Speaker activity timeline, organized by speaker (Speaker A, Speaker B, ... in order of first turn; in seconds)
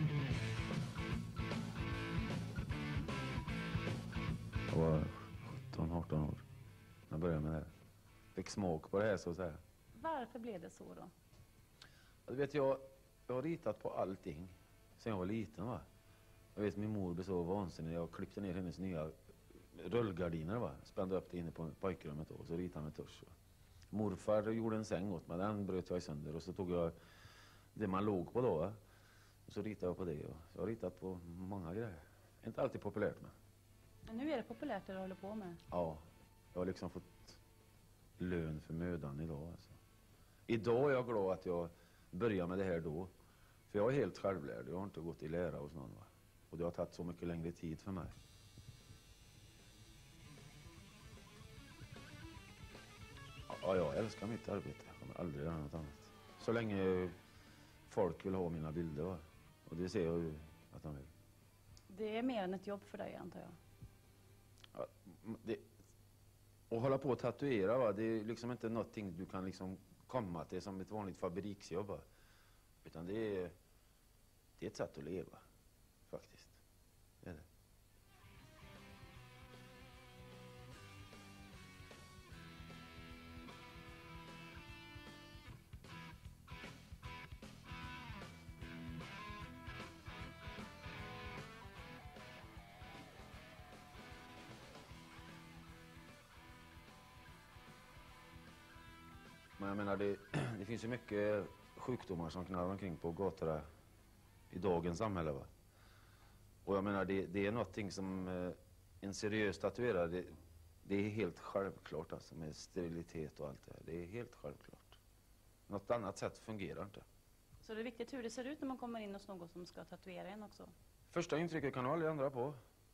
Speaker A: 4.7-6.5, 7.1-7.7, 8.3-9.6, 12.3-15.8, 16.6-19.1, 19.7-23.3, 23.9-26.9, 27.8-28.8, 29.5-33.3, 35.7-36.0, 36.5-37.4, 38.2-39.8, 40.5-43.1, 43.7-48.1, 53.5-57.1, 57.9-61.1, 64.7-65.7, 66.7-72.0, 72.8-73.5, 74.6-75.4, 76.1-76.6, 99.6-103.6, 104.5-105.5, 106.7-110.3, 110.8-115.0, 115.7-117.0, 121.1-122.6
Speaker B: 10.0-11.1, 34.1-35.6, 61.9-63.6, 117.6-120.7